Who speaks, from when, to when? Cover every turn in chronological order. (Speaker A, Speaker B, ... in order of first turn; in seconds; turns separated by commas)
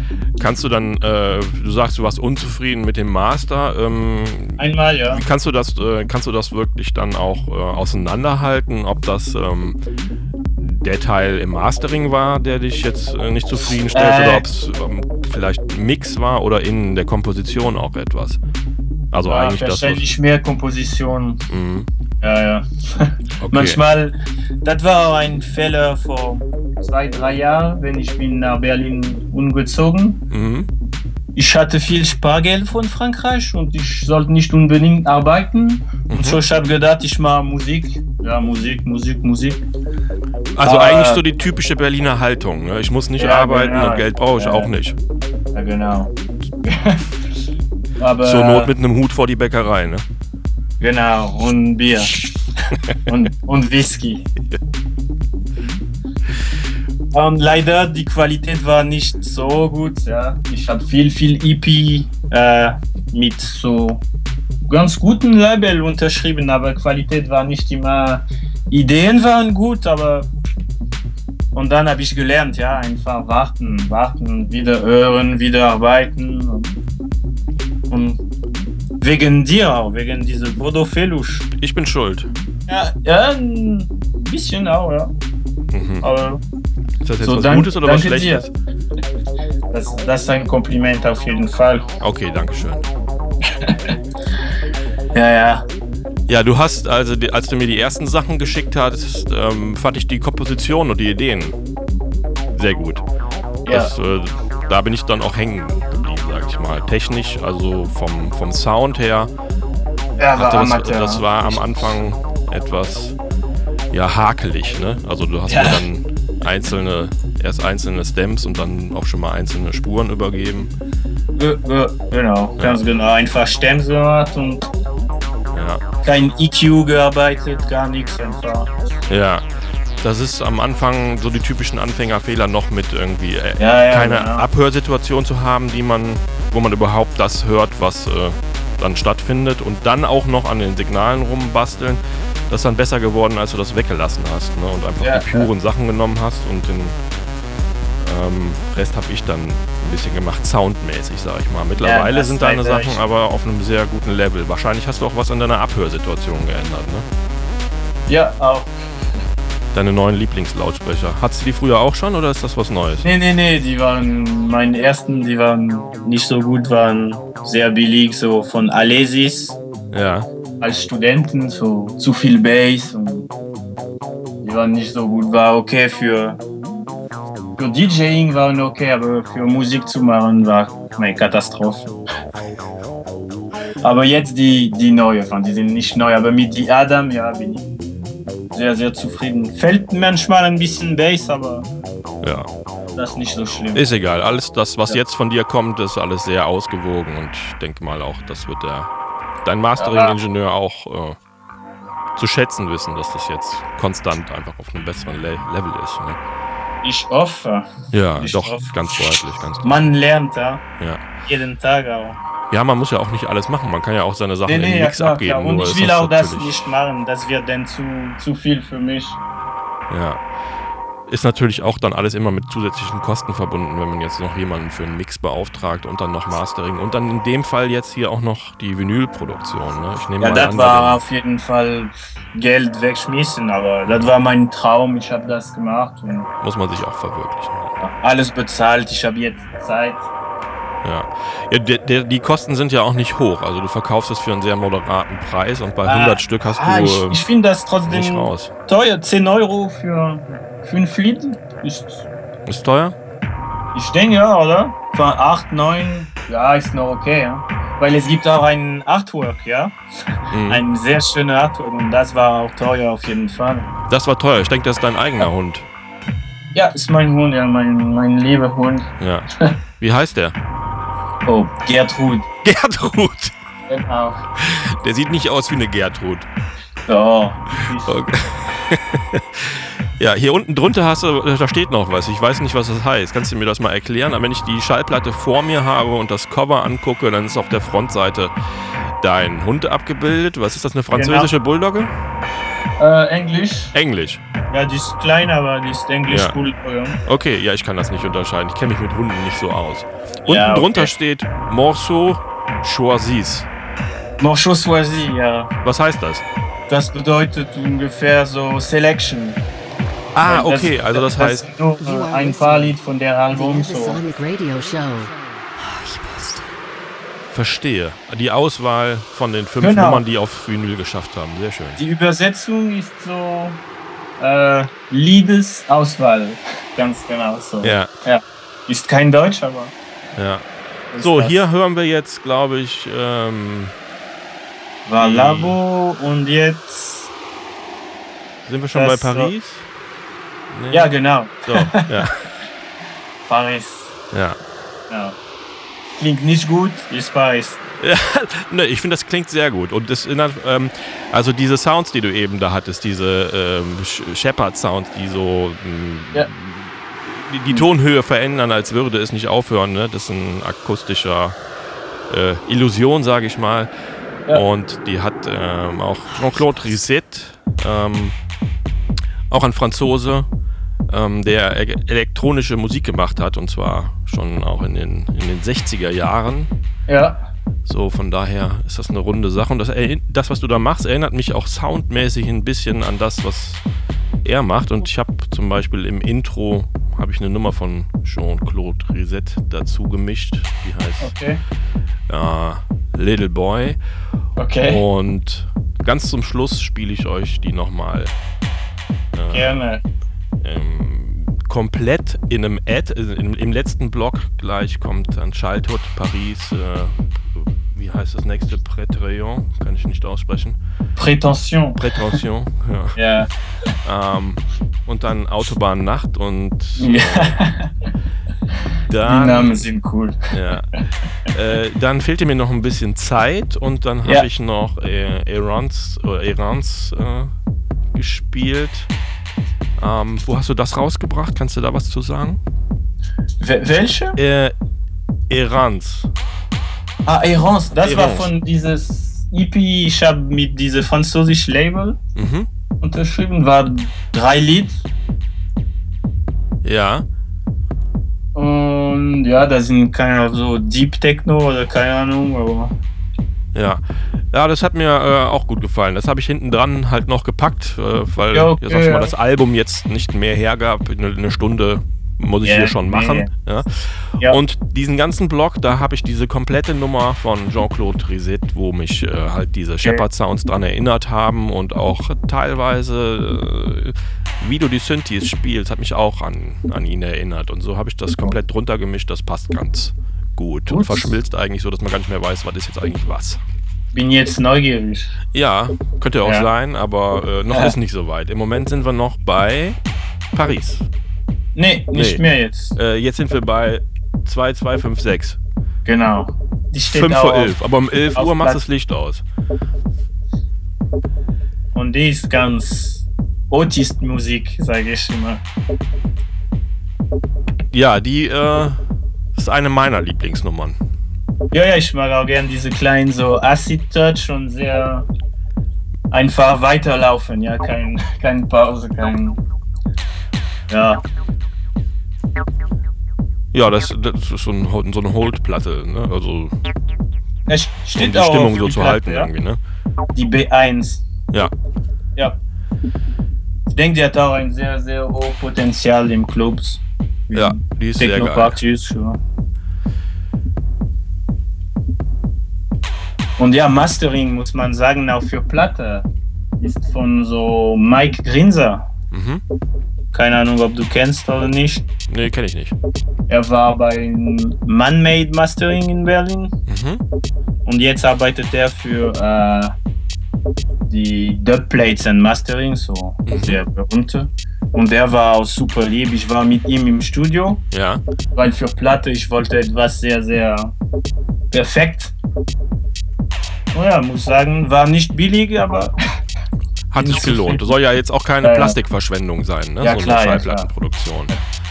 Speaker A: 0.4-9.8, Speaker B: 4.6-5.2, Speaker A: 10.6-18.4, Speaker B: 13.9-14.5, Speaker A: 19.1-20.1, Speaker B: 19.2-21.4, Speaker A: 21.5-21.9, Speaker B: 22.2-30.2, Speaker A: 23.4-23.8, Speaker A: 30.3-30.7, Speaker B: 31.4-39.6, Speaker A: 36.1-36.4, Speaker A: 40.5-45.0, Speaker B: 40.6-41.2, Speaker B: 43.2-44.7, Speaker B: 45.5-47.1, Speaker B: 48.0-48.7, Speaker A: 48.2-50.0, Speaker B: 50.8-52.2, Speaker B: 53.1-54.3, Speaker B: 57.1-64.0, Speaker B: 64.7-70.3, Speaker B: 71.5-76.8, Speaker B: 77.9-78.2, Speaker B: 79.0-81.5, Speaker A: 81.6-82.3, Speaker B: 82.7-85.1, Speaker A: 85.7-86.1, Speaker B: 86.0-86.4, Speaker A: 87.0-88.5, Speaker B: 87.2-88.5, Speaker B: 89.7-91.9, Speaker A: 92.0-92.9, Speaker B: 95.2-95.7, Speaker A: 96.3-101.6, Speaker A: 102.5-103.0, Speaker A: 103.7-109.3, Speaker B: 103.7-103.9, Speaker B: 110.2-111.9, Speaker A: 110.4-113.2, Speaker A: 113.9-120.7, Speaker B: 115.5-115.8, Speaker B: 121.4-124.7, Speaker A: 125.5-125.8, Speaker B: 126.0-128.7, Speaker A: 129.1-129.5, Speaker A: 130.0-147.0, Speaker B: 133.6-134.5, Speaker B: 145.0-145.5, Speaker A: 148.0-157.1, Speaker B: 151.8-153.0, Speaker B: 158.1-158.8, Speaker A: 159.7-163.1, Speaker B: 163.0-169.6, Speaker A: 169.9-170.3, Speaker B: 170.6-173.3, Speaker B: 174.4-176.4, Speaker B: 177.6-181.9, Speaker B: 183.8-187.7, Speaker B: 188.5-191.7, Speaker A: 192.2-192.5, Speaker B: 193.0-193.9, Speaker A: 193.7-198.9, Speaker A: 199.4-201.2, Speaker B: 199.8-200.2, Speaker A: 202.2-206.2, Speaker B: 206.8-208.7, Speaker A: 207.9-209.7, Speaker B: 209.6-210.7, Speaker B: 211.2-212.2, Speaker A: 212.5-216.7, Speaker B: 214.5-219.2, Speaker A: 219.9-220.2, Speaker A: 221.1-231.0, Speaker B: 230.2-236.3, Speaker A: 236.4-237.8, Speaker B: 237.8-240.1, Speaker A: 240.8-247.2, Speaker B: 245.8-252.1, Speaker A: 247.9-248.5, Speaker A: 252.5-253.0, Speaker B: 253.7-259.8, Speaker A: 260.3-260.6, Speaker B: 260.5-263.7, Speaker A: 263.9-265.7, Speaker B: 266.5-269.6, Speaker A: 269.0-269.3, Speaker A: 269.8-270.4, Speaker B: 271.2-272.3, Speaker A: 272.4-273.3, Speaker B: 273.7-274.2, Speaker A: 274.4-276.3, Speaker B: 276.9-278.0, Speaker A: 277.9-288.3, Speaker A: 289.0-291.9, Speaker B: 290.9-291.3, Speaker B: 292.8-293.7, Speaker A: 293.7-294.2, Speaker B: 294.5-297.0, Speaker A: 296.1-296.3, Speaker A: 297.1-303.5, Speaker B: 300.3-300.9, Speaker B: 304.2-305.5, Speaker A: 305.6-306.2, Speaker B: 306.7-309.4, Speaker A: 310.1-311.5, Speaker B: 310.2-314.0, Speaker C: 311.8-312.8, Speaker C: 313.3-316.5, Speaker A: 317.3-321.8, Speaker B: 319.6-320.0, Speaker B: 321.8-323.6, Speaker B: 324.2-329.7, Speaker A: 327.6-327.9, Speaker A: 330.2-330.4, Speaker B: 330.9-331.4, Speaker A: 331.0-333.7, Speaker B: 334.9-337.1, Speaker A: 335.0-335.6, Speaker A: 338.5-339.6, Speaker B: 338.7-339.3, Speaker A: 340.5-340.9, Speaker B: 340.7-342.1, Speaker A: 341.5-342.2, Speaker B: 343.2-343.9, Speaker A: 344.1-344.4, Speaker B: 344.9-345.2, Speaker B: 346.0-347.6, Speaker A: 347.8-361.4, Speaker A: 362.1-363.7, Speaker A: 364.3-368.2, Speaker A: 369.3-370.3, Speaker A: 370.9-376.5, Speaker B: 376.9-377.2, Speaker A: 377.7-383.6, Speaker A: 384.2-391.1, Speaker B: 391.0-391.4, Speaker A: 392.1-393.8, Speaker B: 394.4-394.8, Speaker A: 394.6-398.1, Speaker A: 399.1-399.6, Speaker B: 399.3-399.8, Speaker A: 400.4-410.6, Speaker B: 411.0-412.2, Speaker A: 411.8-413.0, Speaker B: 413.0-413.3, Speaker A: 413.8-417.4, Speaker B: 416.8-417.7, Speaker A: 418.9-419.7, Speaker B: 419.1-420.2, Speaker A: 420.3-420.7, Speaker A: 421.3-427.3, Speaker A: 427.9-428.9, Speaker A: 429.8-432.4, Speaker B: 433.4-434.2, Speaker A: 434.2-434.5, Speaker A: 435.3-436.1, Speaker B: 437.1-442.0, Speaker A: 437.8-438.3, Speaker A: 442.2-442.5, Speaker B: 442.8-444.8, Speaker A: 446.6-447.1, Speaker B: 448.4-452.8, Speaker A: 453.5-483.4, Speaker B: 458.3-459.1, Speaker B: 462.4-463.3, Speaker B: 480.7-481.1, Speaker B: 483.9-485.2, Speaker A: 485.3-489.8, Speaker A: 490.3-490.9, Speaker B: 491.6-492.8, Speaker A: 491.9-492.2, Speaker A: 492.8-495.4, Speaker B: 495.9-497.6, Speaker A: 496.9-499.2, Speaker B: 498.1-498.6, Speaker B: 501.7-505.4, Speaker A: 507.7-508.8, Speaker A: 509.4-510.8, Speaker B: 511.5-515.1, Speaker B: 516.1-519.4, Speaker B: 520.7-521.0, Speaker A: 523.5-526.5, Speaker B: 527.5-529.3, Speaker A: 528.0-529.6, Speaker B: 530.1-531.0, Speaker B: 533.7-539.2, Speaker A: 537.3-538.6, Speaker B: 543.4-546.1, Speaker B: 546.6-548.9, Speaker A: 549.1-549.4, Speaker B: 550.1-551.9, Speaker A: 552.1-552.8, Speaker B: 553.3-556.5, Speaker A: 556.7-557.0, Speaker B: 557.7-559.8, Speaker B: 560.9-567.6, Speaker A: 563.3-563.6, Speaker A: 567.7-568.0, Speaker B: 568.4-570.7, Speaker B: 571.5-572.1, Speaker B: 573.7-575.9, Speaker A: 576.9-581.3, Speaker B: 577.0-577.7, Speaker B: 578.4-578.8, Speaker B: 579.8-580.7